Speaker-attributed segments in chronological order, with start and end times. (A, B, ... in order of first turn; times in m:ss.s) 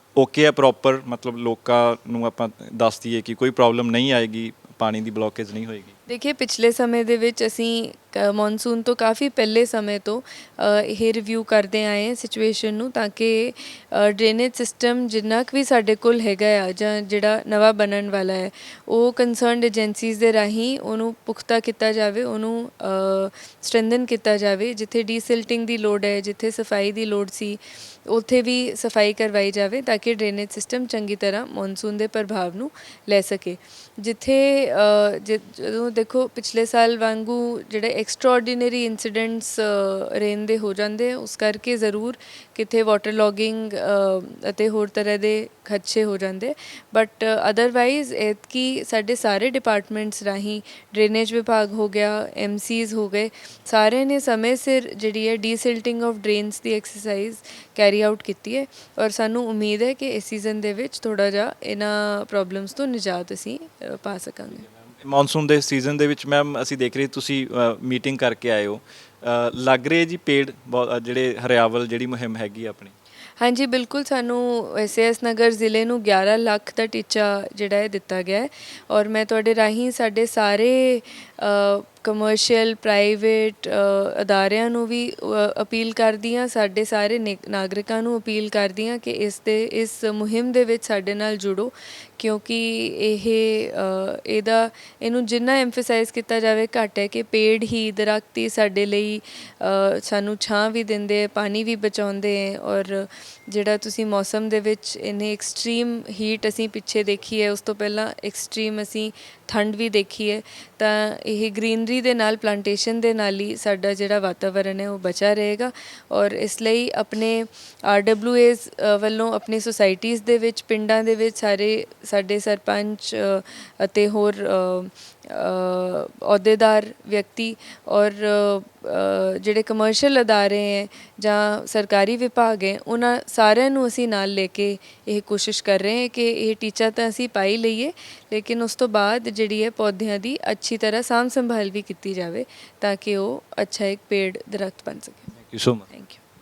0:00.2-0:05.9 A
0:06.1-1:04.6 B
1:05.0-1:12.9 A
1:13.4-2:25.3 B
2:25.4-2:25.9 A
2:25.9-2:26.2 B